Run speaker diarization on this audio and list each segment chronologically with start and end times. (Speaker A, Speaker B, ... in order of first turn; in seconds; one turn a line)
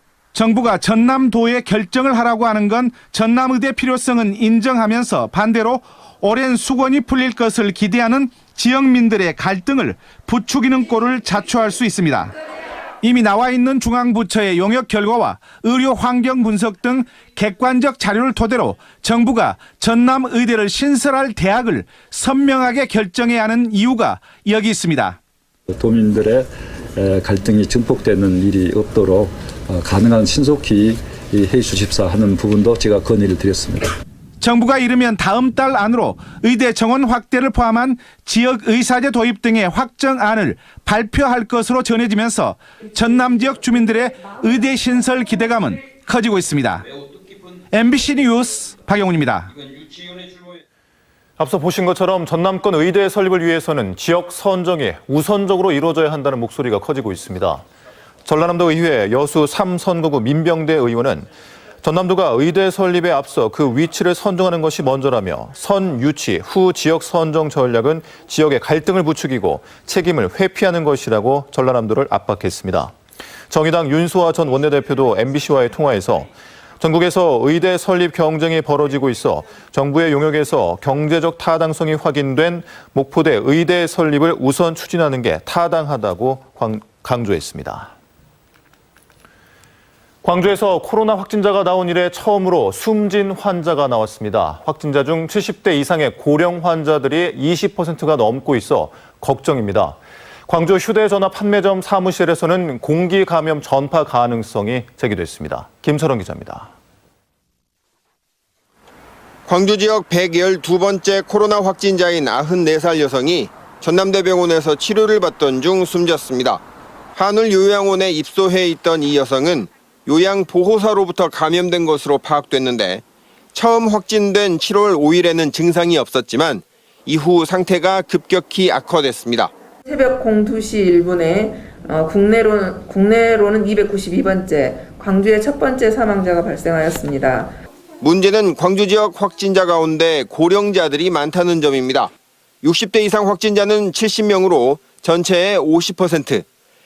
Speaker A: 0.3-12.3
Speaker A: 13.0-25.2
Speaker B: 25.7-33.9
Speaker A: 34.4-46.8
Speaker A: 47.7-49.5
Speaker C: 51.4-57.6
Speaker C: 58.2-61.3
Speaker C: 61.8-72.9
Speaker C: 73.5-87.9
Speaker C: 90.2-106.7
Speaker D: 109.5-116.6
Speaker D: 117.1-123.0
Speaker D: 123.5-129.5
Speaker E: 129.8-137.5
Speaker D: 138.0-146.4